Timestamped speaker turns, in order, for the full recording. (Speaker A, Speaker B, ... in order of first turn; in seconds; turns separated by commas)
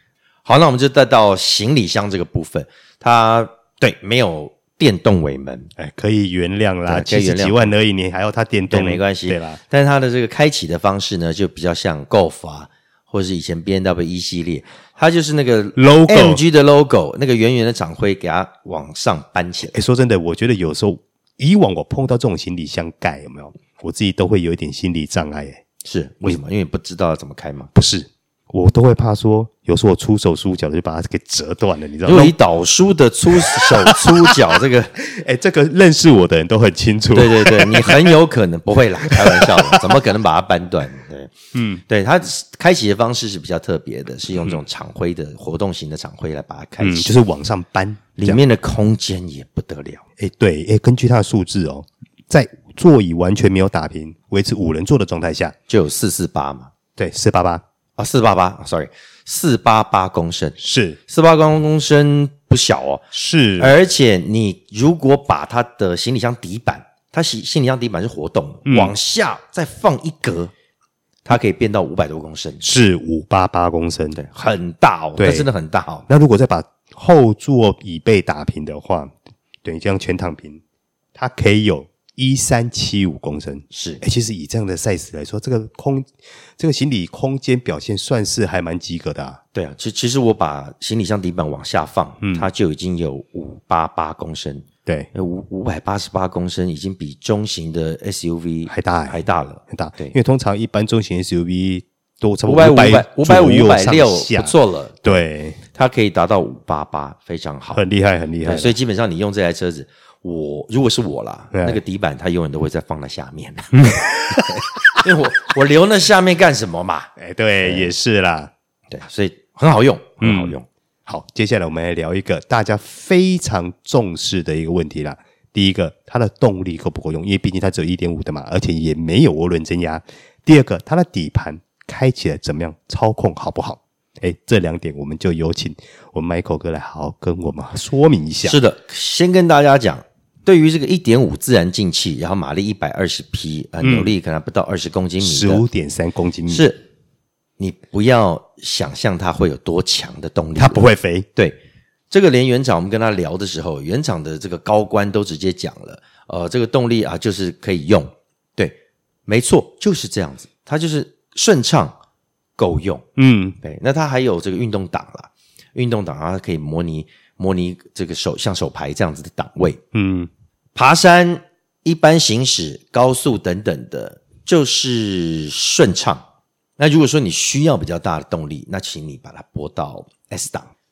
Speaker A: 0.5-5.7, Speaker B: 5.8-9.6, Speaker A: 6.9-7.7, Speaker A: 8.7-19.8, Speaker B: 15.8-16.4, Speaker B: 19.7-25.6, Speaker A: 25.8-27.7, Speaker B: 27.7-32.4, Speaker A: 32.0-35.0, Speaker B: 33.4-34.4, Speaker B: 35.0-38.2, Speaker A: 37.1-41.3, Speaker B: 39.0-39.9, Speaker B: 41.5-41.8, Speaker A: 41.9-47.2, Speaker B: 46.8-48.4, Speaker A: 48.2-50.0, Speaker B: 50.2-55.5, Speaker A: 55.7-56.7, Speaker B: 57.0-57.6, Speaker A: 58.0-63.1, Speaker B: 60.6-61.0, Speaker B: 63.1-63.8, Speaker A: 63.6-70.5, Speaker B: 68.7-69.0, Speaker A: 71.2-72.7, Speaker B: 72.6-74.2, Speaker A: 74.2-76.1, Speaker B: 75.2-75.5, Speaker B: 76.1-80.6, Speaker B: 81.2-89.4, Speaker A: 83.7-84.0, Speaker A: 89.5-100.2, Speaker B: 92.2-92.5, Speaker B: 98.7-99.2, Speaker B: 99.7-105.6, Speaker A: 102.5-107.8, Speaker B: 107.7-108.8, Speaker A: 108.4-117.1, Speaker B: 111.5-111.8, Speaker B: 113.7-115.0, Speaker B: 117.2-118.5, Speaker A: 117.6-117.9, Speaker A: 118.9-120.7, Speaker B: 120.2-120.6, Speaker B: 121.1-138.6, Speaker A: 138.4-145.6, Speaker B: 143.8-144.2, Speaker B: 145.2-146.7, Speaker A: 146.5-146.8, Speaker A: 147.6-151.6, Speaker B: 150.6-151.3, Speaker A: 152.1-162.0, Speaker A: 162.6-163.1, Speaker B: 163.2-163.6, Speaker A: 163.6-169.8, Speaker B: 169.9-170.3, Speaker A: 170.8-176.2, Speaker A: 176.8-180.7